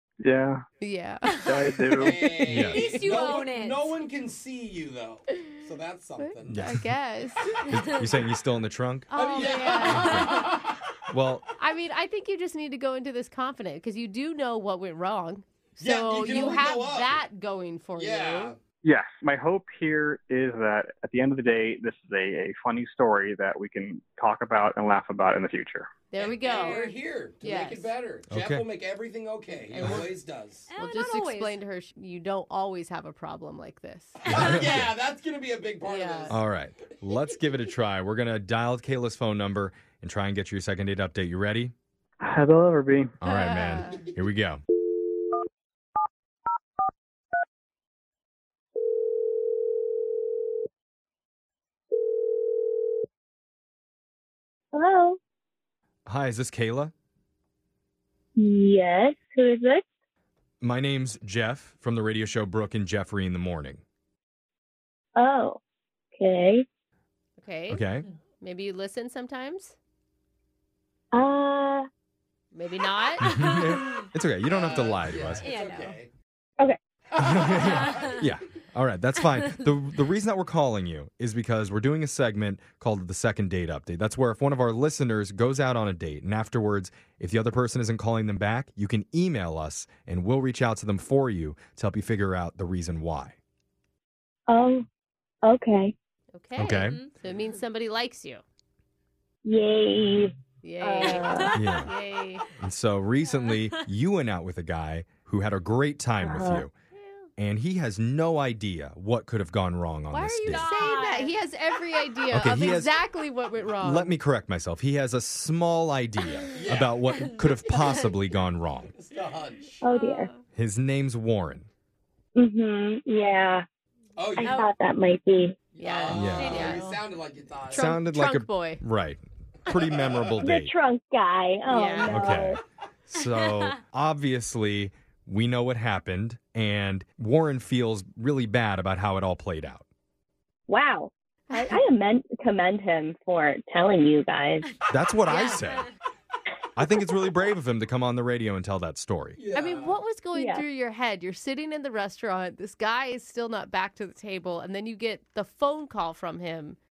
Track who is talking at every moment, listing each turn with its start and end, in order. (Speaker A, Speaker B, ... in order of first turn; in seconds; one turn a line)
Speaker A: 0.2-0.6
Speaker B: 0.8-3.2
Speaker A: 1.4-2.3
Speaker C: 1.9-6.6
Speaker D: 2.5-2.9
Speaker E: 2.7-3.9
Speaker B: 6.2-7.6
Speaker D: 6.5-6.8
Speaker D: 7.7-9.2
Speaker B: 9.1-10.4
Speaker C: 9.1-10.8
Speaker D: 9.7-10.2
Speaker E: 9.9-10.3
Speaker D: 11.1-11.4
Speaker B: 11.6-18.5
Speaker C: 15.8-17.2
Speaker C: 18.0-18.6
Speaker A: 18.8-26.0
Speaker B: 26.1-26.9
Speaker C: 26.2-30.7
Speaker E: 26.5-26.9
Speaker B: 27.4-27.9
Speaker D: 28.3-28.7
Speaker B: 29.8-30.1
Speaker E: 30.7-31.6
Speaker B: 30.8-34.6
Speaker C: 34.2-36.4
Speaker D: 34.4-34.8
Speaker B: 35.8-36.4
Speaker D: 36.3-41.7
Speaker A: 42.2-43.1
Speaker D: 43.2-44.6
Speaker B: 43.3-44.1
Speaker F: 54.7-55.2
Speaker D: 56.1-56.9
Speaker F: 58.4-59.8
Speaker D: 60.6-63.8
Speaker F: 65.2-65.6
Speaker F: 66.2-66.7
Speaker B: 67.4-67.8
Speaker D: 67.7-68.1
Speaker B: 68.4-69.8
Speaker F: 71.1-71.9
Speaker B: 72.5-73.2
Speaker E: 73.2-74.0
Speaker D: 73.2-75.5
Speaker C: 74.5-76.1
Speaker E: 75.4-76.0
Speaker C: 77.1-78.2
Speaker D: 77.2-93.4
Speaker F: 94.5-94.8
Speaker F: 95.4-96.0
Speaker B: 96.3-98.4
Speaker D: 96.6-97.0
Speaker F: 99.5-101.5
Speaker B: 100.6-102.4
Speaker D: 101.5-101.9
Speaker D: 102.6-106.7
Speaker E: 103.2-103.8
Speaker F: 106.2-106.7
Speaker B: 107.0-107.2
Speaker D: 107.4-110.7
Speaker B: 110.1-114.2
Speaker E: 110.5-111.3
Speaker D: 112.3-113.0
Speaker D: 113.8-118.9
Speaker C: 116.5-117.0
Speaker C: 118.9-119.8
Speaker F: 119.8-120.3
Speaker E: 119.9-120.4
Speaker D: 120.6-121.7
Speaker F: 122.4-123.7
Speaker C: 124.2-124.7
Speaker F: 124.4-125.6
Speaker E: 124.4-124.7
Speaker C: 125.7-127.9
Speaker B: 125.8-127.0
Speaker D: 126.1-126.7
Speaker E: 126.4-126.8
Speaker B: 127.7-128.8
Speaker D: 127.7-130.7
Speaker C: 129.9-130.3
Speaker F: 130.4-132.6
Speaker B: 131.7-132.3
Speaker D: 132.0-139.8
Speaker E: 133.3-133.7
Speaker F: 140.7-144.7
Speaker B: 141.5-141.8
Speaker D: 144.9-145.9
Speaker E: 145.2-145.9
Speaker D: 146.8-149.4
Speaker C: 149.4-150.0
Speaker B: 149.5-156.8
Speaker F: 150.3-150.6